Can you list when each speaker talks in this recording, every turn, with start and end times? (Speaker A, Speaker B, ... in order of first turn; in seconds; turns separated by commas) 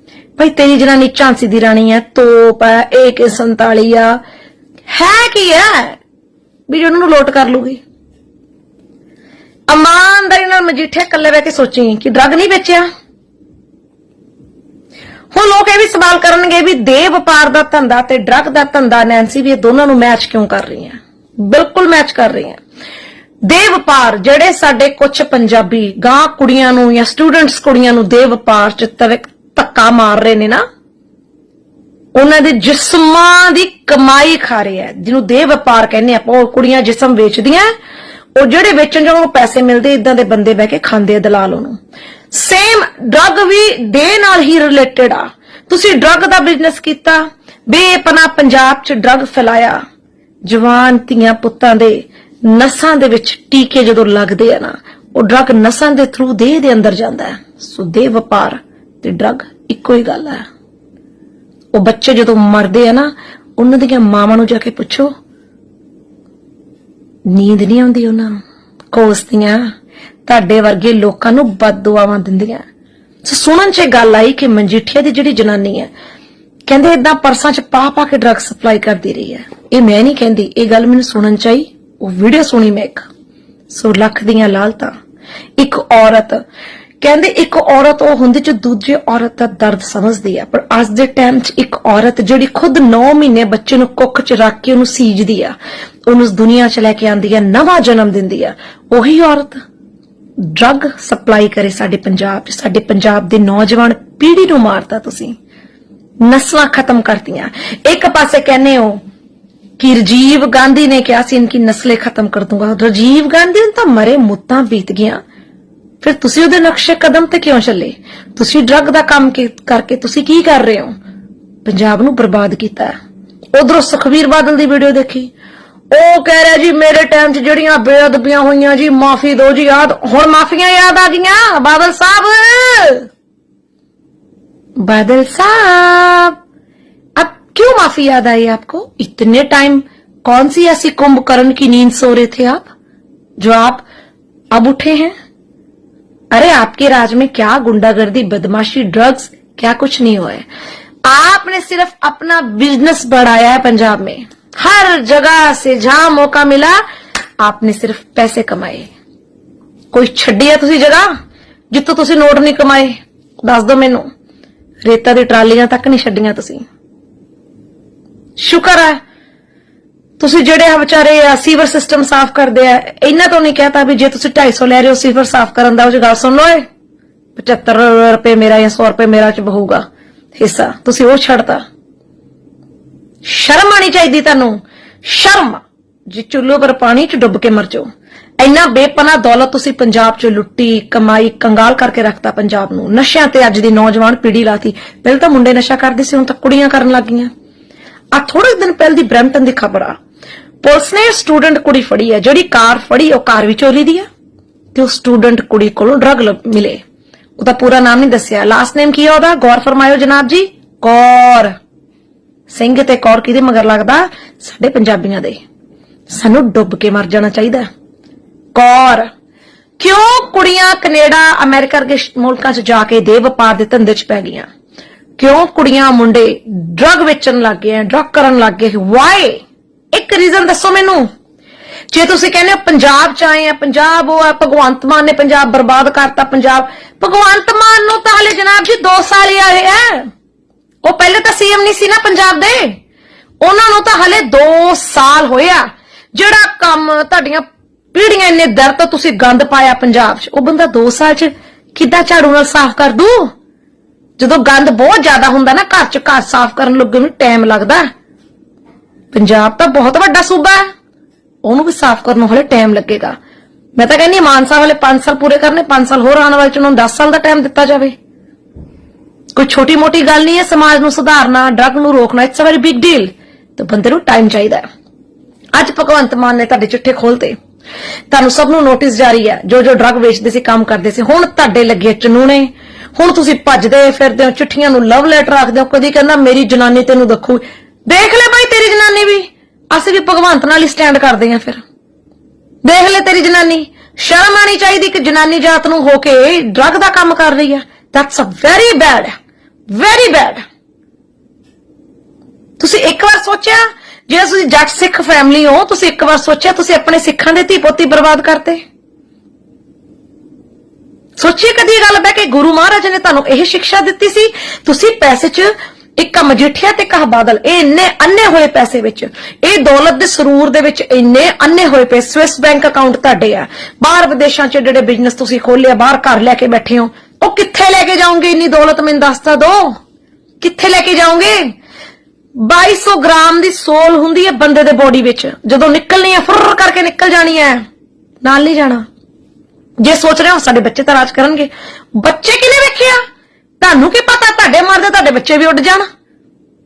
Speaker A: 0.4-4.2, Speaker A: 4.9-6.0, Speaker A: 6.7-7.8, Speaker A: 9.7-12.8, Speaker A: 15.3-22.6, Speaker A: 23.4-30.6, Speaker A: 32.1-37.7, Speaker A: 38.4-41.8, Speaker A: 42.3-49.8, Speaker A: 50.5-60.4, Speaker A: 61.7-65.1, Speaker A: 67.3-68.4, Speaker A: 68.9-69.6, Speaker A: 70.2-72.6, Speaker A: 73.2-75.9, Speaker A: 76.7-83.0, Speaker A: 83.7-84.9, Speaker A: 85.6-86.4, Speaker A: 87.0-95.5, Speaker A: 96.1-99.6, Speaker A: 100.4-105.3, Speaker A: 106.2-109.0, Speaker A: 109.8-115.2, Speaker A: 116.0-120.9, Speaker A: 121.6-122.9, Speaker A: 123.5-125.3, Speaker A: 125.9-133.1, Speaker A: 134.8-136.3, Speaker A: 137.2-142.7, Speaker A: 143.4-143.8, Speaker A: 144.5-145.1, Speaker A: 146.3-150.4, Speaker A: 151.0-156.8, Speaker A: 157.4-158.9, Speaker A: 159.9-161.1, Speaker A: 161.7-164.1, Speaker A: 164.8-166.6, Speaker A: 168.4-169.0, Speaker A: 170.2-176.6, Speaker A: 177.3-179.8, Speaker A: 180.3-181.6, Speaker A: 183.2-187.9, Speaker A: 188.4-197.3, Speaker A: 198.1-199.9, Speaker A: 200.6-204.1, Speaker A: 204.7-206.8, Speaker A: 207.4-211.5, Speaker A: 212.5-215.4, Speaker A: 216.1-217.7, Speaker A: 218.5-219.1, Speaker A: 219.8-224.5, Speaker A: 225.2-231.1, Speaker A: 231.9-240.1, Speaker A: 240.8-242.8, Speaker A: 243.4-253.3, Speaker A: 254.2-257.9, Speaker A: 259.1-260.6, Speaker A: 261.4-263.1, Speaker A: 263.8-267.9, Speaker A: 269.3-274.6, Speaker A: 275.5-277.3, Speaker A: 278.1-291.6, Speaker A: 292.6-299.1, Speaker A: 299.7-300.4, Speaker A: 302.6-308.6, Speaker A: 311.2-329.8, Speaker A: 330.4-331.5, Speaker A: 332.4-337.6, Speaker A: 338.2-338.8, Speaker A: 339.8-343.0, Speaker A: 343.6-345.9